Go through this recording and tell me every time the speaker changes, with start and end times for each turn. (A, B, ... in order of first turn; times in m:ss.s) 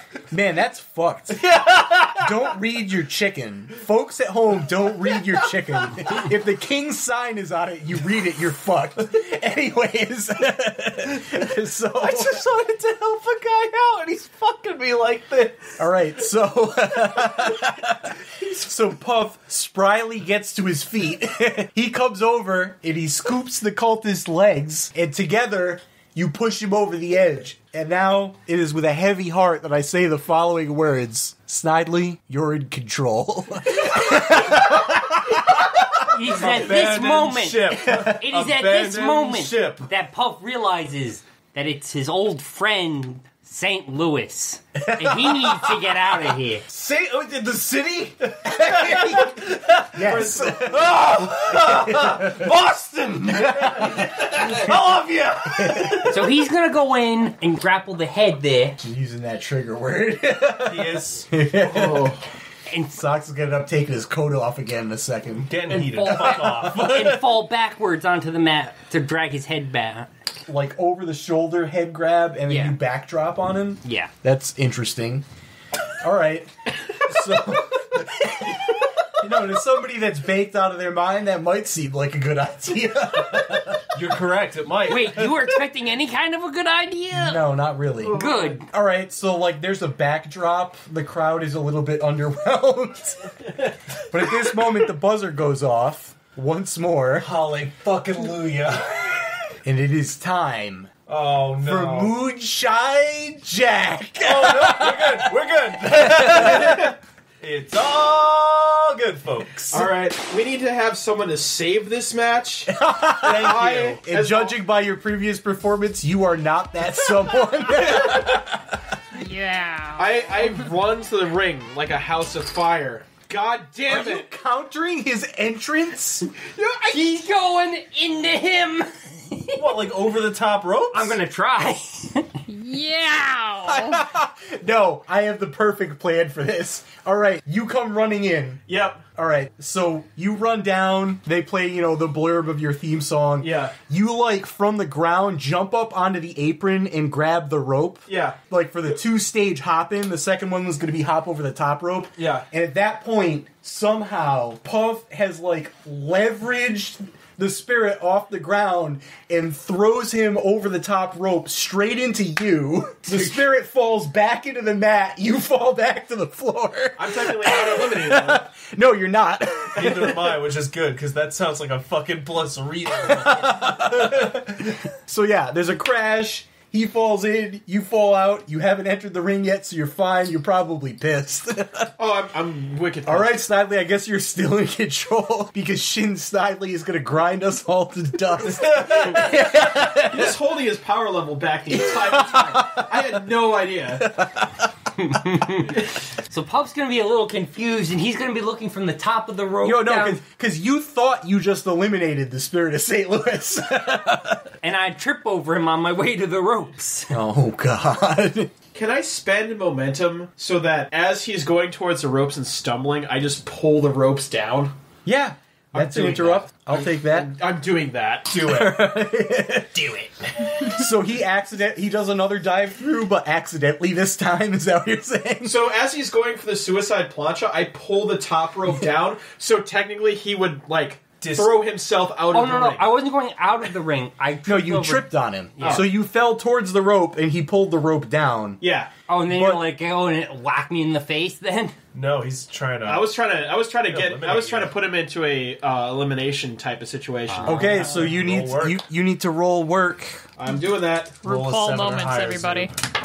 0:00.3-0:01.5 A
0:01.3-0:02.5 B
0:02.0-0:12.5 A
0:05.1-0:05.4 B
0:11.2-0:11.4 B
0:11.9-0:15.9 B
0:15.8-0:35.9 A
0:17.0-0:18.7 B
0:35.9-0:39.9 B
0:36.0-0:46.7 C
0:44.9-0:45.8 A
0:46.7-0:52.6 A
0:46.8-0:56.4 B
0:53.2-0:54.6 A
0:55.4-0:56.1 A
0:56.1-0:58.8 C
0:58.8-1:02.2 A
1:00.6-1:01.3 B
1:01.7-1:02.2 D
1:02.7-1:03.0 C
1:02.9-1:06.7 A
1:05.4-1:07.2 B
1:05.7-1:10.1 C
1:10.5-1:15.2 A
1:12.5-1:12.8 C
1:13.8-1:14.1 C
1:16.0-1:23.8 A
1:23.9-1:25.5 B
1:24.9-1:27.5 C
1:27.1-1:33.4 A
1:28.1-1:28.7 C
1:28.1-1:28.6 D
1:34.0-1:34.7 B
1:34.0-1:37.3 A
1:37.2-1:39.5 B
1:39.6-1:40.9 A
1:41.1-1:42.2 B
1:41.6-1:46.8 A
1:44.2-1:49.9 B
1:49.7-1:54.5 D
1:52.7-1:58.8 A
1:53.2-1:54.0 B
1:57.9-1:58.2 D
1:59.1-2:00.5 E
2:00.0-2:04.3 D
2:03.9-2:06.3 A
2:06.4-2:07.2 D
2:06.9-2:09.7 C
2:09.6-2:11.2 B
2:10.9-2:12.3 C
2:12.5-2:14.0 E
2:13.6-2:18.6 A
2:18.7-2:19.0 D
2:19.2-2:50.4 A
2:28.1-2:28.4 D
2:32.2-2:32.4 D
2:47.0-2:48.5 D
2:49.8-2:54.7 B
2:53.0-3:01.9 A
3:02.0-3:03.4 D
3:03.0-3:10.4 A
3:08.5-3:09.8 B
3:10.0-3:14.1 D
3:11.7-3:13.3 A
3:14.0-3:14.7 A
3:15.0-3:20.2 C
3:19.6-3:24.5 A
3:24.6-3:27.1 C
3:27.1-3:28.5 A
3:28.7-3:34.7 D
3:35.1-3:37.3 A
3:35.7-3:38.4 D
3:38.3-3:38.8 B
3:38.4-3:39.9 A
3:40.5-3:45.7 A
3:45.4-3:53.0 D
3:51.2-3:51.7 B
3:52.3-3:55.9 C
3:54.4-3:58.6 A
3:55.6-3:55.9 D
3:58.6-3:58.9 D
3:59.1-4:01.8 C
3:59.3-3:59.6 A
4:01.9-4:03.2 B
4:02.8-4:07.8 D
4:03.8-4:04.8 B
4:07.3-4:07.9 C
4:07.4-4:10.2 A
4:07.6-4:08.8 B
4:10.4-4:11.3 D
4:11.2-4:12.7 E
4:11.2-4:12.7 B